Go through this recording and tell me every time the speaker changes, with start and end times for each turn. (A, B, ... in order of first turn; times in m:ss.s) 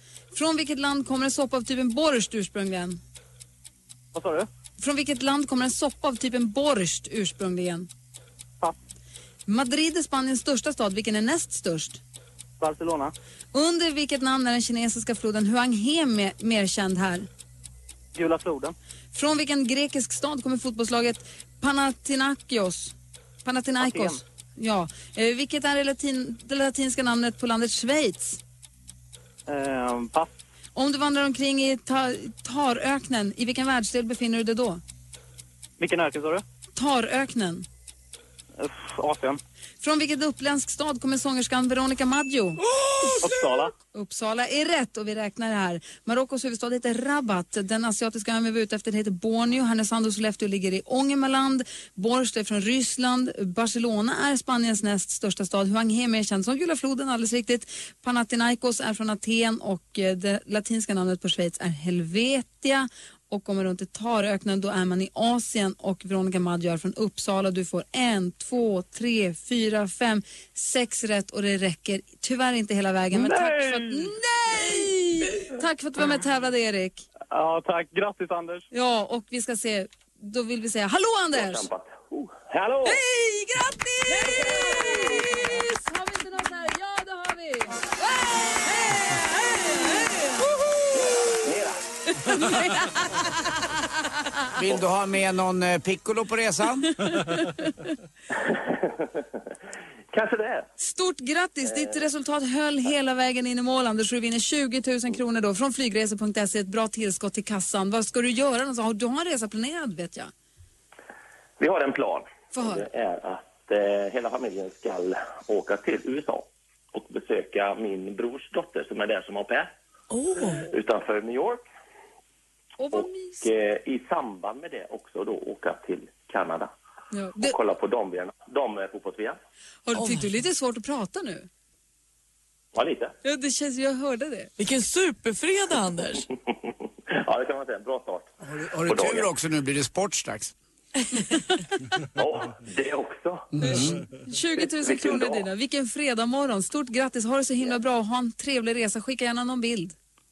0:00.3-0:03.0 A
0:04.2-0:04.4 B
0:04.8-0:07.9 A
0:09.5-0:12.0 A
0:12.6-0:13.1 B
0:13.5-0:17.3 A
0:18.2-0:18.7 B
0:19.1-0:22.9 A
0:23.4-0:28.4 A
0:23.8-0:24.2 B
0:29.5-0:30.3 B
0:30.8-0:34.8 A
0:35.8-0:36.4 B
0:36.8-0:37.7 A
0:39.0-0:39.4 B
0:39.8-0:43.3 A
0:43.2-0:43.7 B
0:43.9-1:17.1 A
1:13.1-1:14.0 B
1:17.3-1:18.6 B
1:18.7-1:21.7 A
1:21.3-1:23.0 C
1:22.8-1:30.7 A
1:31.0-1:31.8 C
1:32.3-1:33.2 A
1:34.6-1:36.9 D
1:37.0-1:37.7 A
1:38.4-1:39.0 C
1:40.1-1:40.7 C
1:40.8-1:50.3 A
1:41.6-1:42.0 C
1:51.6-1:59.7 C
1:52.5-1:52.9 A
2:00.1-2:00.7 E
2:00.7-2:01.6 C
2:02.8-2:03.5 A
2:02.9-2:06.7 C
2:07.1-2:07.6 A
2:07.4-2:09.4 C
2:09.9-2:11.5 A
2:10.0-2:10.3 E
2:12.7-2:13.2 C
2:13.2-2:14.5 A
2:14.6-2:16.3 E
2:17.1-2:18.3 C
2:18.4-2:20.5 D
2:18.8-2:19.3 C
2:22.2-2:23.5 C
2:23.5-2:24.0 D
2:23.6-2:29.9 A
2:24.6-2:25.5 C